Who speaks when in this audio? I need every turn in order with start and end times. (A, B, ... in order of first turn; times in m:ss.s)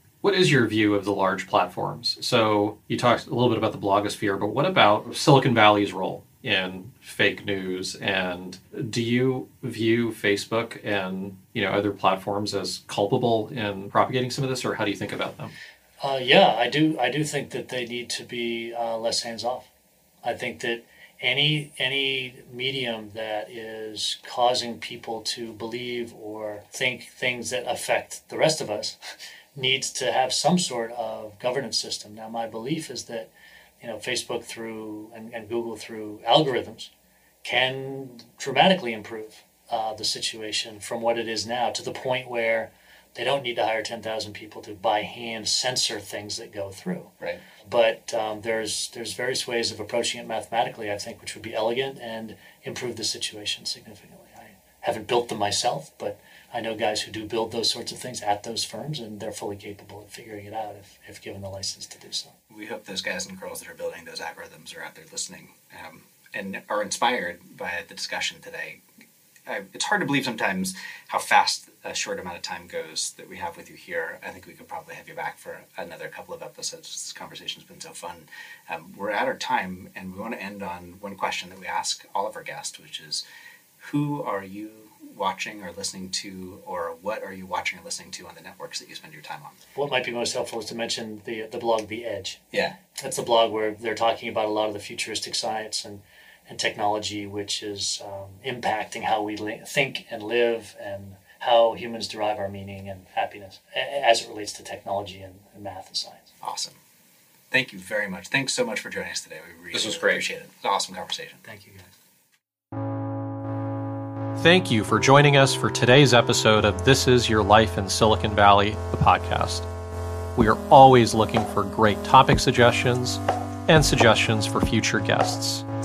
0:00.2-0:15.5 A
0:16.0-0:19.7 B
0:20.2-0:29.0 B
0:29.6-0:33.3 B
0:33.8-0:36.9 B
0:37.4-0:47.1 B
0:47.7-1:02.3 B
1:02.5-1:08.8 C
1:09.5-1:23.2 C
1:23.8-1:29.6 C
1:29.8-1:32.4 B
1:32.5-1:32.8 C
1:33.0-1:46.3 B
1:46.4-1:46.8 C
1:47.5-1:51.4 C
1:49.7-1:50.2 A
1:51.4-1:51.9 B
1:54.4-1:59.7 A
2:00.4-2:05.6 A